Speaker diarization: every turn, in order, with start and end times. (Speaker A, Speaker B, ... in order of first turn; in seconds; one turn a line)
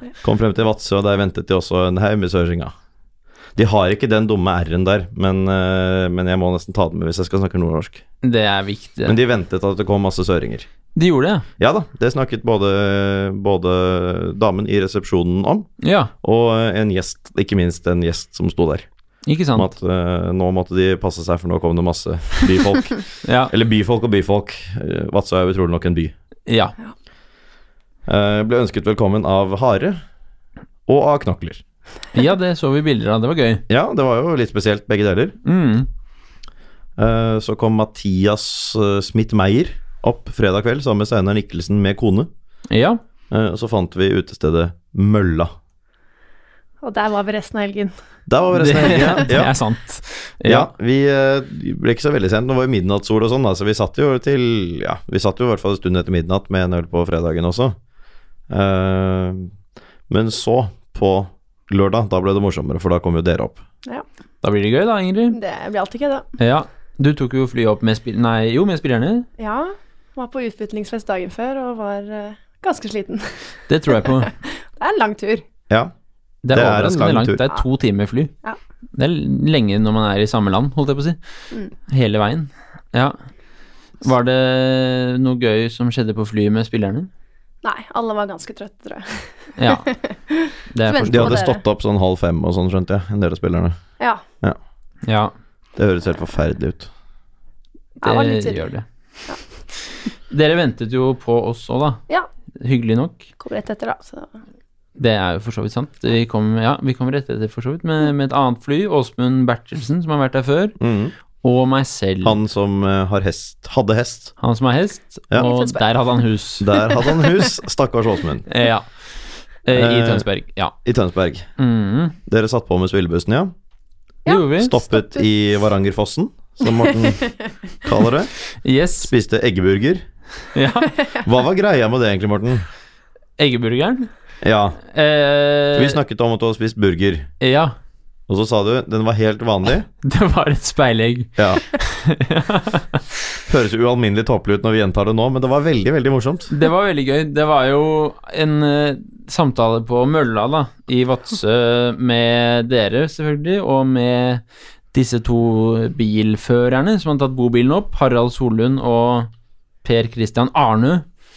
Speaker A: 0.2-2.7
Speaker A: 3.6-8.0
Speaker B: 8.2-9.2
Speaker A: 9.1-10.7
Speaker B: 10.9-11.4
Speaker A: 11.6-18.9
Speaker B: 15.8-16.1
Speaker B: 19.3-19.7
Speaker A: 19.5-26.1
Speaker B: 23.2-23.5
Speaker B: 26.5-26.8
Speaker A: 28.1-30.0
Speaker A: 30.9-31.6
Speaker B: 32.1-33.6
Speaker A: 33.7-35.4
Speaker B: 35.5-35.9
Speaker A: 37.0-42.3
Speaker B: 42.7-43.0
Speaker A: 43.3-45.5
Speaker C: 46.8-47.9
Speaker A: 48.3-49.5
Speaker B: 48.5-50.7
Speaker A: 50.4-57.8
Speaker A: 58.5-59.5
Speaker A: 60.1-63.6
Speaker B: 64.4-65.4
Speaker C: 65.3-66.3
Speaker B: 66.4-69.3
Speaker C: 69.4-75.4
Speaker B: 73.7-74.3
Speaker B: 76.4-78.3
Speaker A: 76.5-77.4
Speaker B: 79.0-81.2
Speaker B: 81.9-83.2
Speaker B: 84.0-87.1
Speaker C: 87.6-91.6
Speaker B: 89.6-89.9
Speaker B: 90.7-91.4
Speaker A: 91.0-93.8
Speaker B: 95.0-95.3
Speaker A: 95.8-96.9
Speaker C: 98.0-98.7
Speaker B: 98.0-98.9
Speaker B: 100.3-102.0
Speaker B: 102.6-103.2
Speaker C: 103.4-104.3
Speaker B: 105.0-110.8
Speaker A: 110.8-111.1
Speaker B: 111.4-112.4
Speaker A: 112.2-114.4
Speaker B: 114.4-116.9
Speaker C: 115.4-115.8
Speaker A: 116.6-118.5
Speaker B: 118.5-120.8
Speaker A: 119.7-120.3
Speaker A: 120.8-121.5
Speaker B: 121.6-122.2
Speaker A: 122.3-123.5
Speaker B: 124.3-124.8
Speaker C: 124.3-125.3
Speaker A: 124.6-130.1
Speaker B: 128.6-129.1
Speaker B: 130.5-130.9
Speaker A: 131.2-132.7
Speaker B: 133.4-134.1
Speaker A: 134.4-134.8
Speaker B: 134.9-136.0
Speaker A: 135.7-137.3
Speaker B: 137.4-137.8
Speaker A: 138.3-139.9
Speaker B: 140.0-143.0
Speaker A: 141.4-141.6
Speaker A: 143.5-146.5
Speaker B: 146.5-159.3
Speaker B: 159.8-161.1